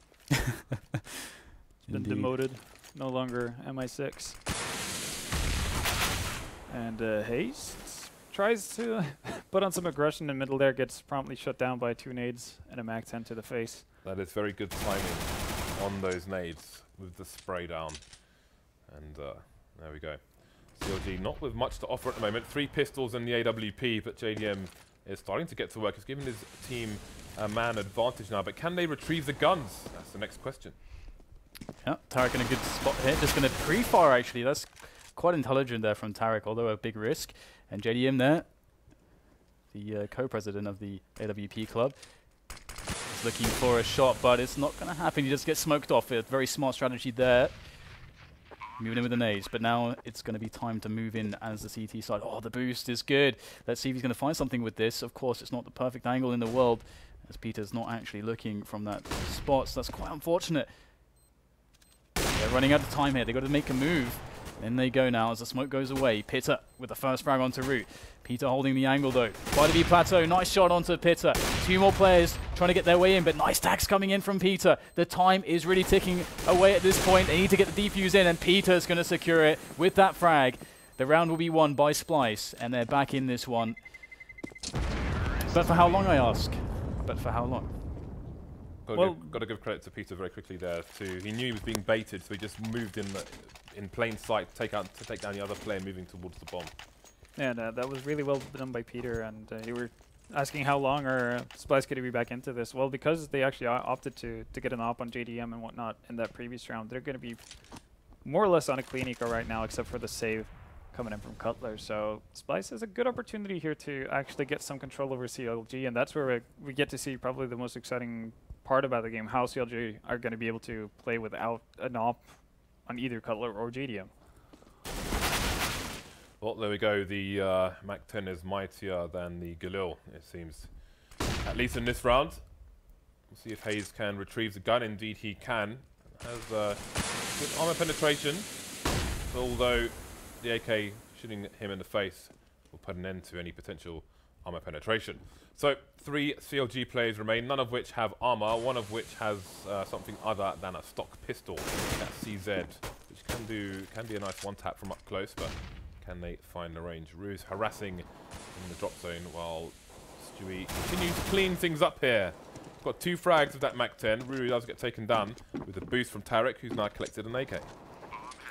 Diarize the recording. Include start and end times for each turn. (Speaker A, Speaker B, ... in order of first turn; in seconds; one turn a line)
Speaker A: 1.9-2.4
Speaker B: 1.9-4.4
Speaker B: 6.7-13.9
Speaker C: 14.0-30.8
Speaker A: 31.8-38.5
Speaker A: 39.7-48.0
Speaker A: 48.8-60.7
Speaker A: 62.3-83.8
Speaker A: 85.5-87.7
Speaker C: 88.8-96.7
Speaker B: 88.9-89.3
Speaker B: 97.4-107.4
Speaker B: 108.2-124.1
Speaker C: 126.4-138.6
Speaker C: 139.2-167.7